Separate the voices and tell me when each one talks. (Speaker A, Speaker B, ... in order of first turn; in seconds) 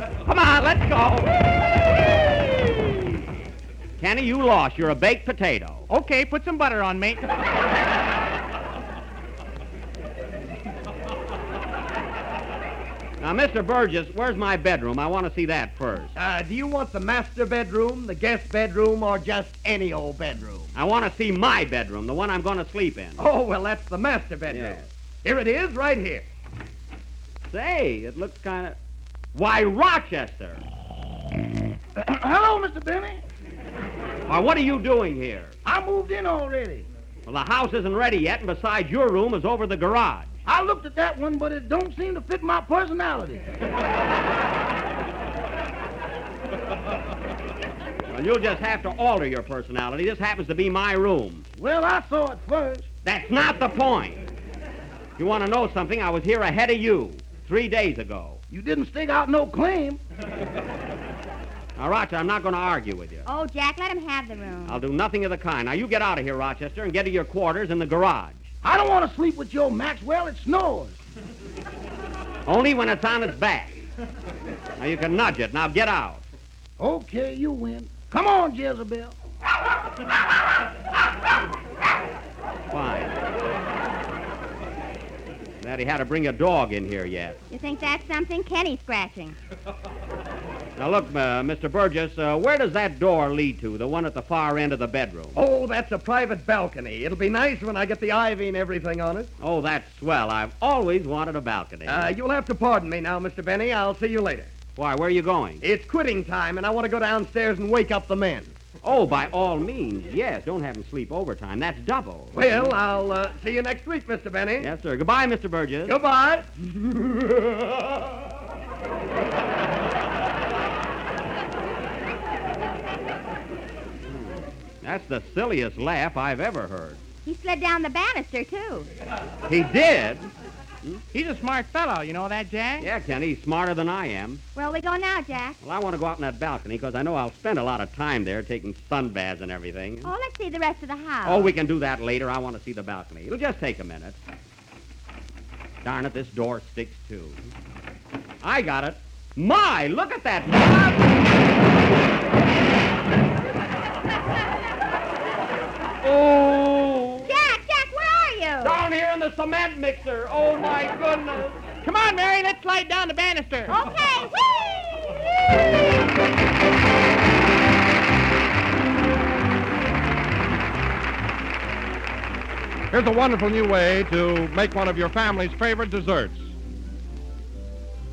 Speaker A: 0.2-1.4, 4.0-5.8, 13.2-16.1, 20.7-23.2, 24.5-24.9, 27.5-28.8, 29.3-30.6, 34.3-35.5, 37.2-40.3, 48.1-51.5, 53.0-54.3, 55.2-58.4, 61.8-63.2, 64.7-68.5, 72.5-73.8, 74.8-76.2, 82.7-83.2, 85.6-87.4, 90.8-95.4, 99.4-102.1, 104.8-105.6, 108.8-112.7, 114.6-116.0, 124.1-127.0, 129.5-130.3, 132.8-134.4, 135.6-140.1, 141.2-144.2, 145.8-147.4, 148.4-151.0, 156.0-157.3, 158.6-161.5
Speaker B: 5.9-7.2, 131.1-132.9, 161.8-163.8
Speaker C: 16.1-20.7, 23.2-26.3, 95.3-99.3, 101.8-104.5, 105.6-108.5, 112.3-114.7, 115.8-118.0
Speaker D: 32.0-33.2, 35.6-36.8, 40.5-43.4, 51.6-52.9, 58.5-60.0, 68.6-71.0, 76.8-79.1
Speaker E: 63.2-64.8, 87.5-89.4, 127.2-128.9, 134.6-135.6, 140.0-141.5, 157.2-158.8, 163.7-164.7
Speaker F: 172.9-176.5